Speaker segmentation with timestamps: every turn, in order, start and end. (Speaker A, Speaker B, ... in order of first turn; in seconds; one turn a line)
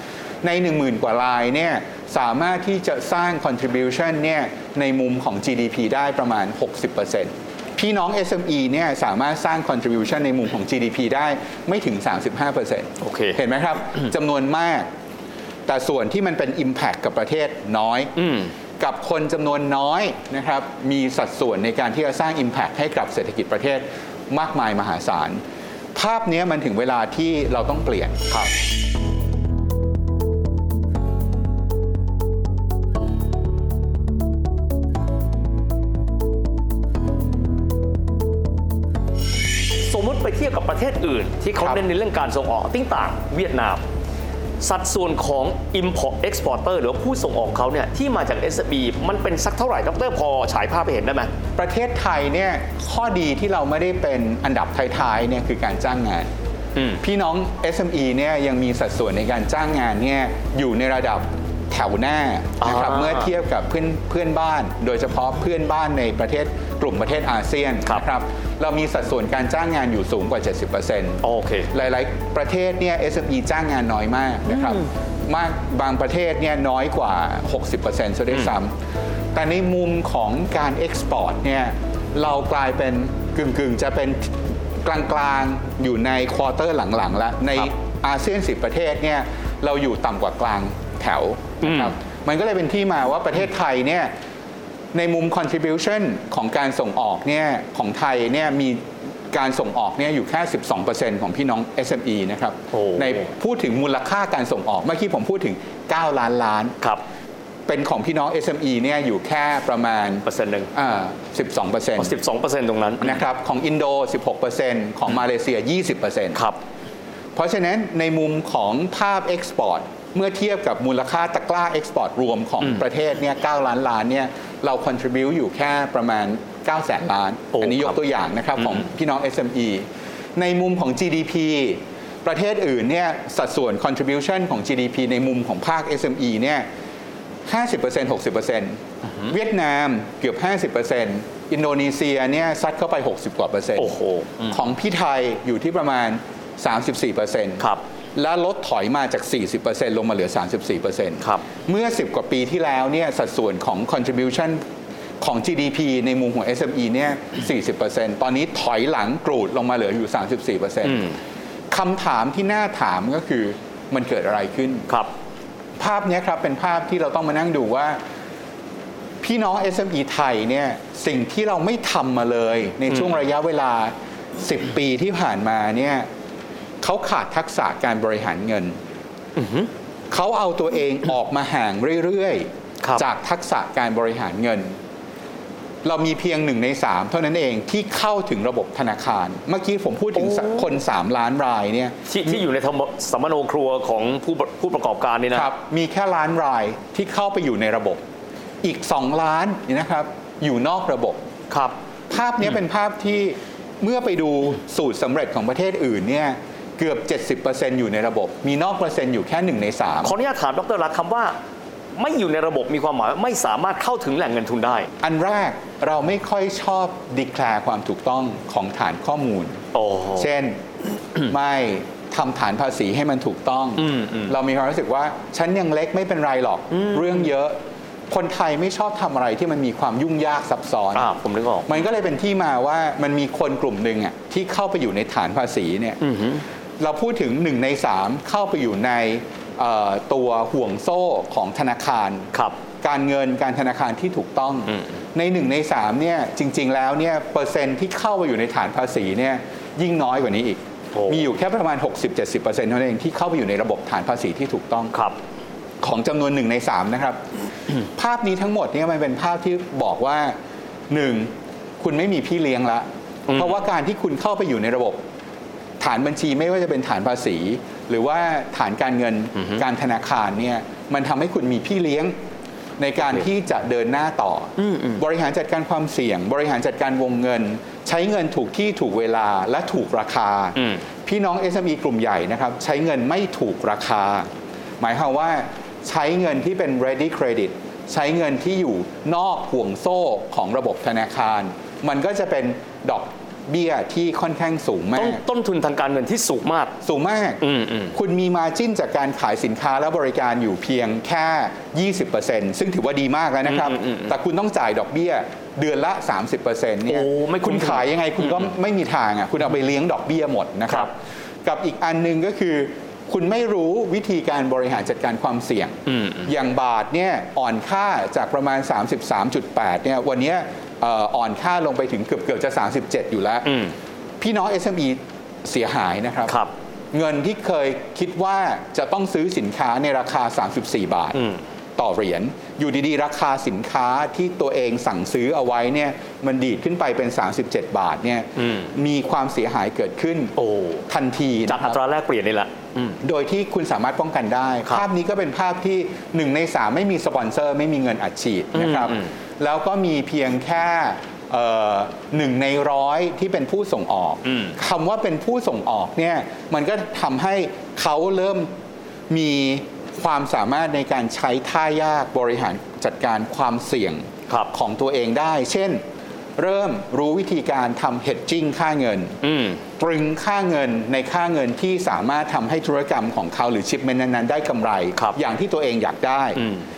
Speaker A: 0.4-14.9
Speaker B: 13.0-13.4
Speaker A: 15.7-18.1
Speaker B: 18.1-18.5
Speaker A: 18.8-25.4
Speaker A: 25.9-28.3
Speaker B: 39.8-43.8
Speaker B: 44.6-51.3
Speaker A: 51.5-56.3
Speaker A: 57.0-78.7
Speaker B: 62.6-63.3
Speaker B: 71.2-71.7
Speaker B: 74.5-74.8
Speaker A: 79.3-94.1
Speaker B: 91.6-91.9
Speaker A: 94.9-106.8
Speaker B: 102.7-103.2
Speaker A: 107.7-112.1
Speaker B: 110.2-110.7
Speaker B: 112.0-113.2
Speaker A: 113.0-116.4
Speaker A: 117.3-136.7
Speaker B: 127.5-127.9
Speaker A: 137.5-143.9
Speaker B: 143.8-144.6
Speaker A: 144.5-154.6
Speaker A: 155.2-161.1
Speaker B: 160.8-161.2
Speaker A: 161.7-164.9
Speaker A: 165.8-168.0
Speaker A: 169.2-176.1
Speaker A: 176.8-178.8
Speaker B: 179.3-179.7
Speaker A: 180.1-184.8
Speaker A: 185.8-192.3
Speaker B: 190.2-190.7
Speaker B: 192.1-195.5
Speaker A: 195.3-198.0
Speaker A: 198.6-201.2
Speaker B: 201.5-201.8
Speaker A: 202.1-210.2
Speaker B: 210.0-211.3
Speaker B: 211.9-214.9
Speaker A: 215.0-219.6
Speaker B: 219.7-220.3
Speaker A: 220.2-220.6
Speaker A: 221.2-227.6
Speaker B: 223.8-224.3
Speaker B: 226.7-227.2
Speaker A: 228.1-231.1
Speaker B: 230.9-231.7
Speaker A: 231.7-236.0
Speaker B: 236.0-236.4
Speaker A: 236.8-254.9
Speaker B: 250.9-251.2
Speaker A: 255.8-257.2
Speaker A: 257.9-260.3
Speaker A: 260.9-265.0
Speaker B: 263.3-263.6
Speaker A: 265.8-272.1
Speaker B: 269.4-269.6
Speaker A: 272.8-284.3
Speaker B: 274.6-275.0
Speaker B: 280.6-280.8
Speaker A: 284.8-295.2
Speaker B: 294.9-296.7
Speaker A: 296.8-297.4
Speaker B: 297.4-297.9
Speaker A: 297.9-323.5
Speaker B: 303.4-304.1
Speaker B: 306.9-308.4
Speaker B: 315.9-316.2
Speaker B: 323.4-323.7
Speaker A: 324.2-326.4
Speaker A: 326.9-331.2
Speaker B: 331.1-331.4
Speaker A: 331.8-340.3
Speaker B: 338.4-338.7
Speaker B: 340.4-340.8
Speaker A: 340.9-341.8
Speaker B: 341.5-343.0
Speaker A: 343.0-358.5
Speaker B: 348.5-349.1
Speaker B: 354.2-354.6
Speaker A: 359.1-365.8
Speaker A: 366.4-369.1
Speaker B: 369.2-369.6
Speaker A: 369.8-376.4
Speaker B: 376.4-376.6